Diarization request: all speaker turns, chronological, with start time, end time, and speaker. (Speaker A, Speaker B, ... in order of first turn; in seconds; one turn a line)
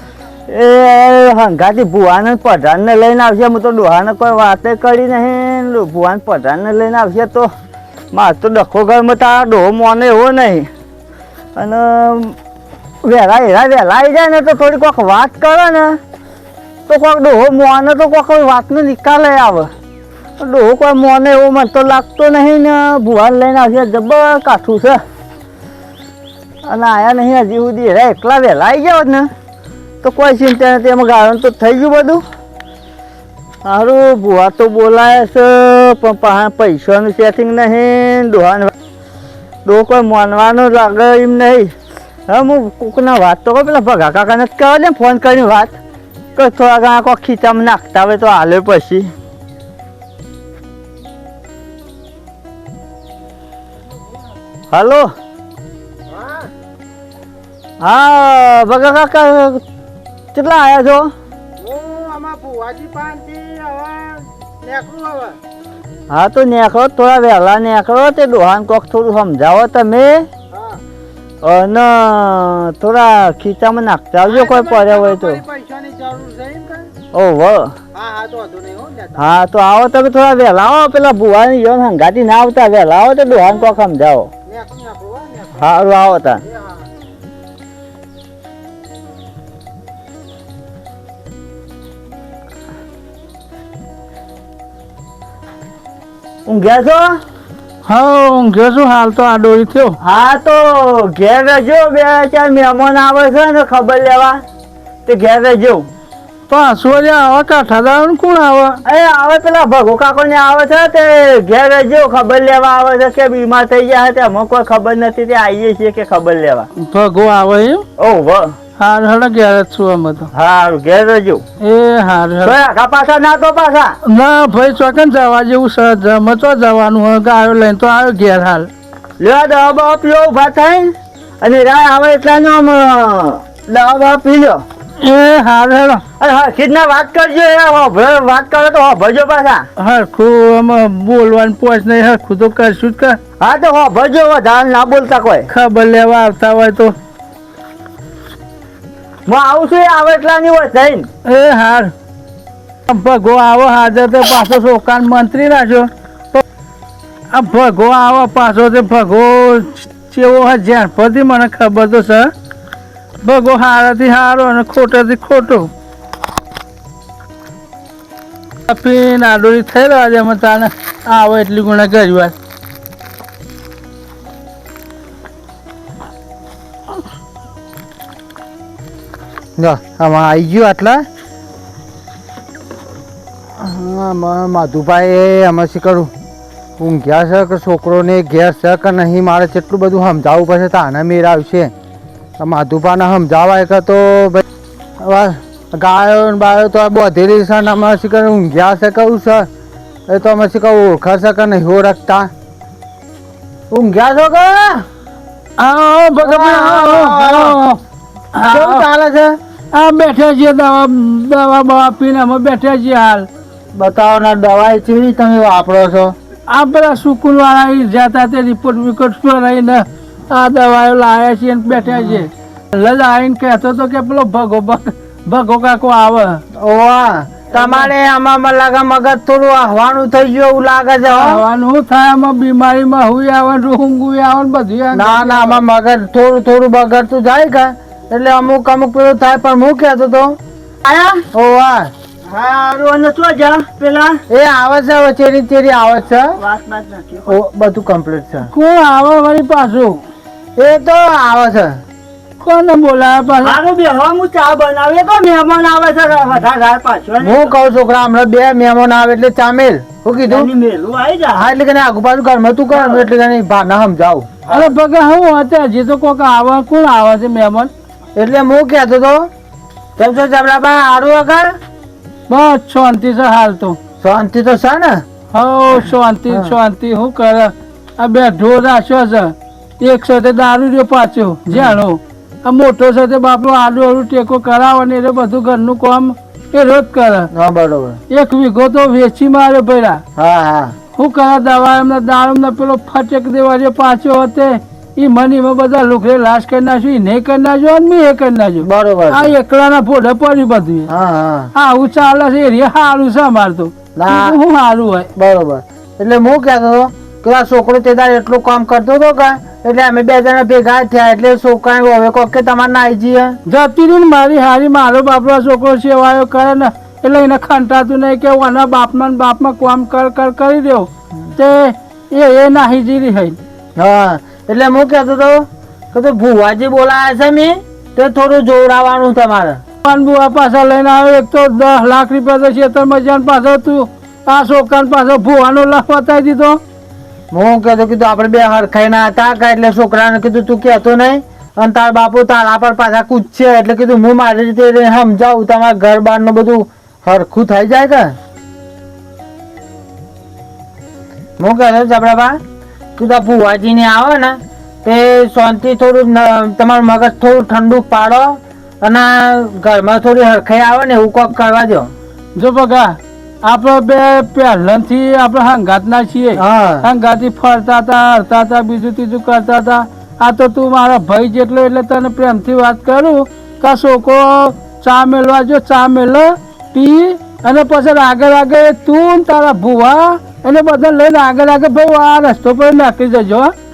Speaker A: 0.5-7.5
Speaker A: 8.1-10.7
Speaker A: 11.6-12.3
Speaker A: 13.0-16.0
Speaker A: 16.9-19.7
Speaker A: 20.4-25.0
Speaker A: 26.6-29.3
Speaker A: 30.0-32.2
Speaker A: 33.6-38.7
Speaker A: 39.6-41.7
Speaker A: 42.3-45.8
Speaker A: 46.4-49.1
Speaker A: 54.7-55.1
Speaker B: 56.2-56.4
Speaker A: 57.8-59.6
Speaker A: 60.3-61.1
Speaker B: 61.6-65.3
Speaker A: 66.1-70.3
Speaker A: 71.4-75.4
Speaker B: 74.2-76.9
Speaker A: 77.1-77.7
Speaker B: 78.0-79.2
Speaker A: 79.2-84.3
Speaker B: 83.4-83.7
Speaker B: 84.5-85.7
Speaker A: 85.5-86.4
Speaker B: 86.4-86.8
Speaker A: 96.5-97.2
Speaker C: 97.8-100.0
Speaker A: 100.0-104.4
Speaker A: 105.0-105.9
Speaker C: 106.5-108.8
Speaker A: 108.8-116.7
Speaker C: 116.8-117.8
Speaker A: 118.0-118.5
Speaker C: 118.8-120.3
Speaker A: 120.3-121.4
Speaker C: 121.6-122.5
Speaker A: 122.4-124.0
Speaker C: 124.0-128.7
Speaker A: 129.2-134.6
Speaker C: 135.0-136.0
Speaker A: 136.2-139.6
Speaker C: 139.8-143.2
Speaker A: 143.4-145.5
Speaker C: 145.5-146.9
Speaker A: 149.3-151.1
Speaker C: 151.2-151.9
Speaker C: 152.9-156.4
Speaker C: 157.3-162.3
Speaker C: 163.2-165.7
Speaker C: 168.7-172.3
Speaker B: 179.6-181.0
Speaker B: 183.6-186.1
Speaker B: 186.8-191.7
Speaker B: 192.4-194.4
Speaker B: 195.0-199.5
Speaker B: 200.1-202.3
Speaker B: 203.7-204.8
Speaker C: 205.6-207.8
Speaker B: 206.2-207.6
Speaker C: 208.3-208.8
Speaker B: 208.4-209.3
Speaker C: 209.7-213.3
Speaker B: 213.7-216.1
Speaker C: 216.5-226.4
Speaker B: 221.9-222.2
Speaker B: 226.6-231.4
Speaker C: 227.5-227.9
Speaker C: 231.1-235.6
Speaker B: 234.9-240.4
Speaker A: 240.8-241.2
Speaker B: 241.3-241.9
Speaker A: 242.2-244.2
Speaker B: 244.3-246.2
Speaker A: 246.3-247.4
Speaker B: 247.2-248.5
Speaker C: 248.4-250.0
Speaker B: 250.6-251.8
Speaker C: 252.4-253.6
Speaker A: 253.4-257.5
Speaker B: 257.2-260.5
Speaker A: 260.2-261.5
Speaker B: 261.3-264.3
Speaker A: 262.7-263.0
Speaker C: 264.5-267.7
Speaker B: 268.1-269.3
Speaker B: 270.0-271.5
Speaker C: 272.3-273.8
Speaker B: 274.0-275.0
Speaker C: 275.3-287.3
Speaker B: 276.3-276.5
Speaker B: 281.5-281.8
Speaker B: 287.3-288.0
Speaker C: 288.1-290.0
Speaker B: 290.1-290.7
Speaker C: 290.9-300.9
Speaker B: 298.6-299.3
Speaker B: 300.9-301.5
Speaker C: 301.5-305.1
Speaker B: 303.9-304.4
Speaker B: 305.1-313.4
Speaker C: 313.4-323.4
Speaker B: 323.8-329.6
Speaker C: 329.8-336.6
Speaker B: 337.3-348.1
Speaker B: 351.4-352.4
Speaker B: 353.0-361.9
Speaker C: 362.4-383.5
Speaker B: 366.4-366.9